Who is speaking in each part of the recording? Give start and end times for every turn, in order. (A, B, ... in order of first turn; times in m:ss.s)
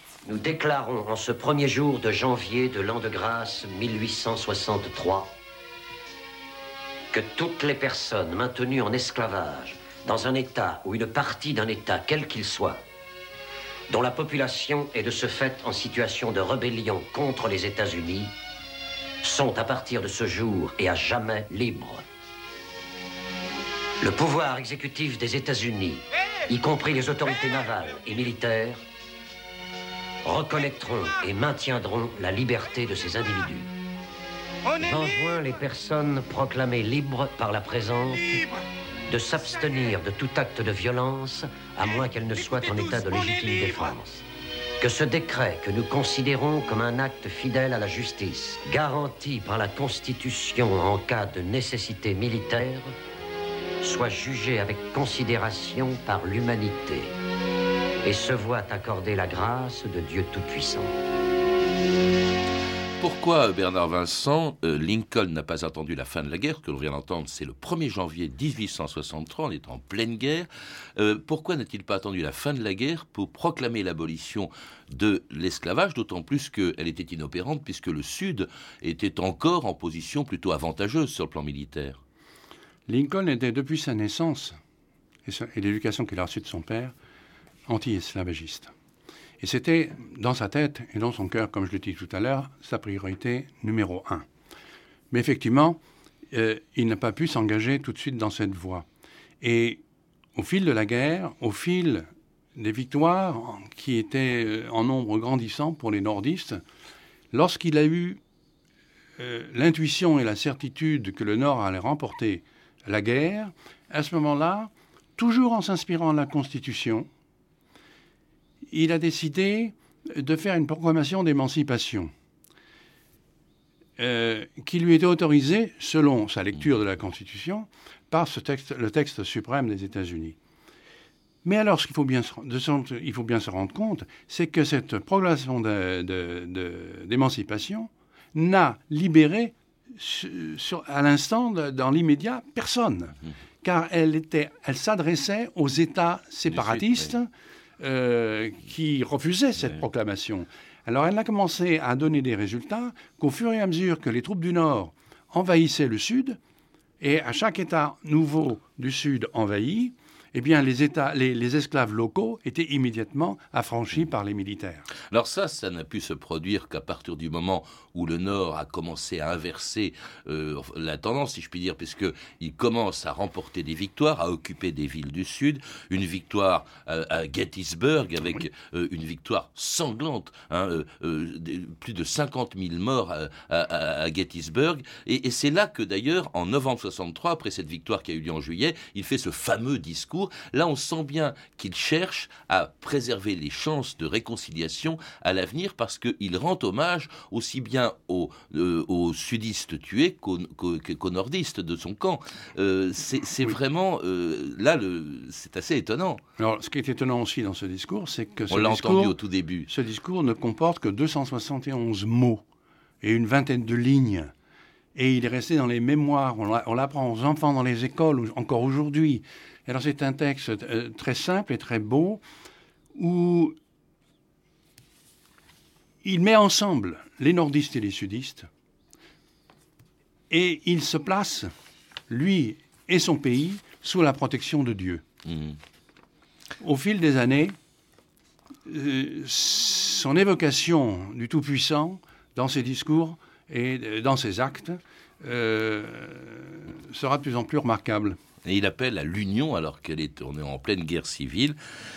0:00.3-0:05.3 A
0:07.1-0:12.8 A
0:13.9-0:18.4 A
0:19.2-0:22.0 A
0:24.0-0:28.8 A
0:30.2-0:33.7 A
0:34.8-0:38.5 A
0:39.1-0:44.2 A
0:44.8-0:52.9 A
0:53.8-0:57.1 A
0:58.0-1:01.0 A
1:03.0-1:22.0 B
1:22.9-1:24.6 C
1:25.3-1:26.9 C
1:27.7-1:28.7 C
1:29.4-1:34.3 C
1:35.1-1:35.8 C
1:36.3-1:38.9 C
1:39.4-1:39.8 C
1:40.4-1:46.6 C
1:47.3-1:48.2 C
1:49.2-1:57.1 C
1:58.7-2:02.1 C
2:04.0-2:10.4 C
2:11.4-2:36.4 C
2:26.5-2:27.1 B
2:37.0-2:44.9 C
2:45.1-3:26.2 B
3:26.4-3:29.2 C
3:28.5-3:29.7 B
3:29.7-3:32.4 C
3:33.0-3:34.3 C
3:35.0-3:42.2 C
3:43.0-3:43.6 C
3:46.0-3:48.5 C
3:50.3-3:51.5 C
3:52.1-3:55.0 C
3:55.3-3:55.6 B
3:56.6-3:57.6 C
3:58.7-4:08.2 C
4:08.4-4:11.6 B